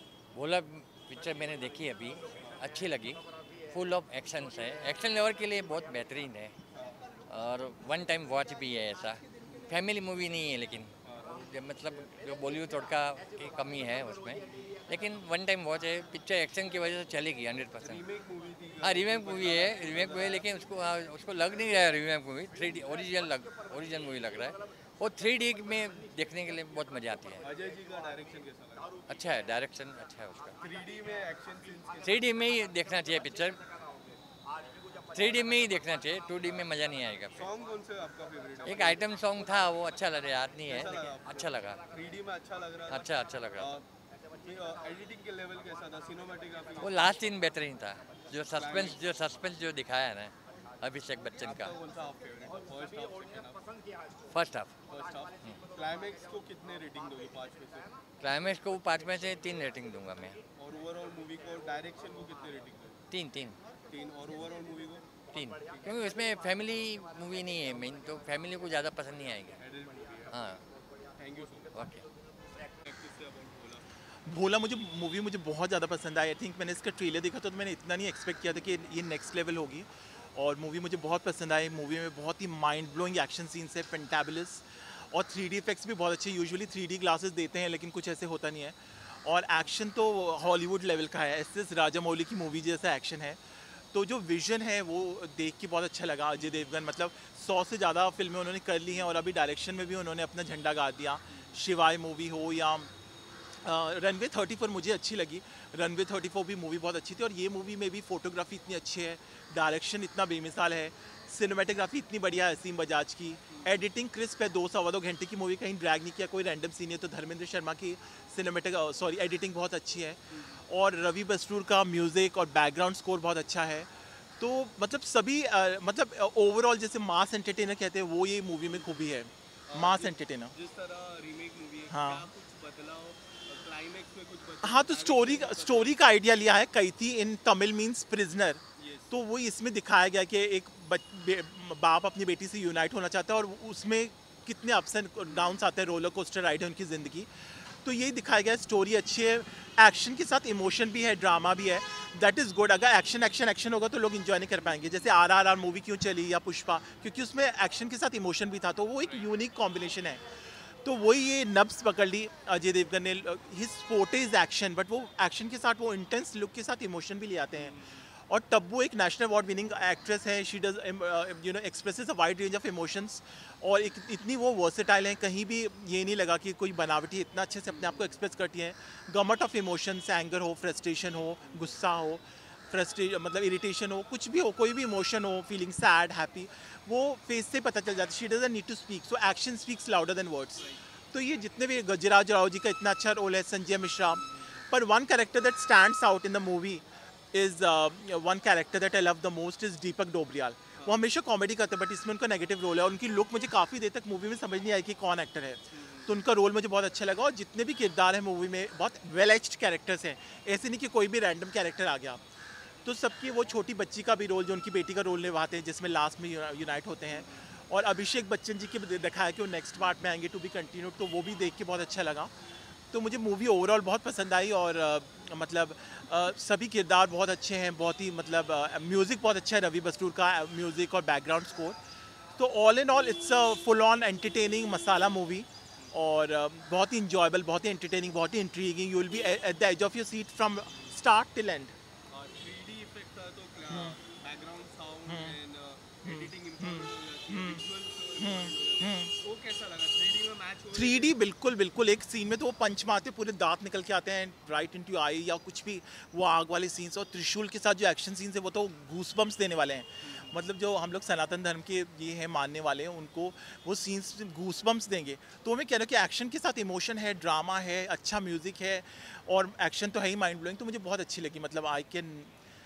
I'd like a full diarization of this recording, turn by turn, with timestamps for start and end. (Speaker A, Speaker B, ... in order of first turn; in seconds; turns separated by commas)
Speaker A: 0.3-6.5, Speaker B: 6.7-7.0, Speaker A: 7.3-18.1, Speaker B: 18.3-20.2, Speaker A: 18.8-27.5, Speaker B: 27.5-29.0, Speaker A: 29.1-30.6, Speaker B: 30.8-32.2, Speaker A: 32.0-33.6, Speaker A: 35.1-37.5, Speaker B: 37.4-39.0, Speaker A: 38.6-41.8, Speaker B: 40.7-41.4, Speaker B: 41.9-43.0, Speaker A: 42.9-43.8, Speaker B: 44.4-46.9, Speaker A: 46.8-51.8, Speaker B: 48.5-48.8, Speaker B: 51.4-53.5, Speaker A: 54.3-54.7, Speaker B: 54.9-57.9, Speaker A: 58.2-60.4, Speaker B: 60.6-62.9, Speaker A: 63.1-63.6, Speaker B: 63.9-65.0, Speaker A: 65.3-69.6, Speaker B: 69.6-70.3, Speaker A: 70.3-70.6, Speaker B: 71.2-71.7, Speaker A: 71.7-72.0, Speaker B: 72.9-73.8, Speaker C: 74.3-102.9, Speaker C: 103.6-130.5, Speaker B: 113.5-113.8, Speaker B: 129.7-135.8, Speaker C: 131.9-132.3, Speaker C: 134.6-160.2, Speaker B: 138.8-139.1, Speaker C: 160.8-212.2, Speaker B: 167.6-168.0, Speaker B: 177.7-178.2, Speaker B: 205.7-206.0, Speaker C: 212.8-222.3, Speaker C: 222.9-231.8, Speaker C: 232.4-241.7, Speaker B: 242.1-251.0, Speaker C: 243.7-244.0, Speaker C: 245.1-245.4, Speaker C: 246.0-247.6, Speaker C: 248.2-249.1, Speaker C: 250.7-272.3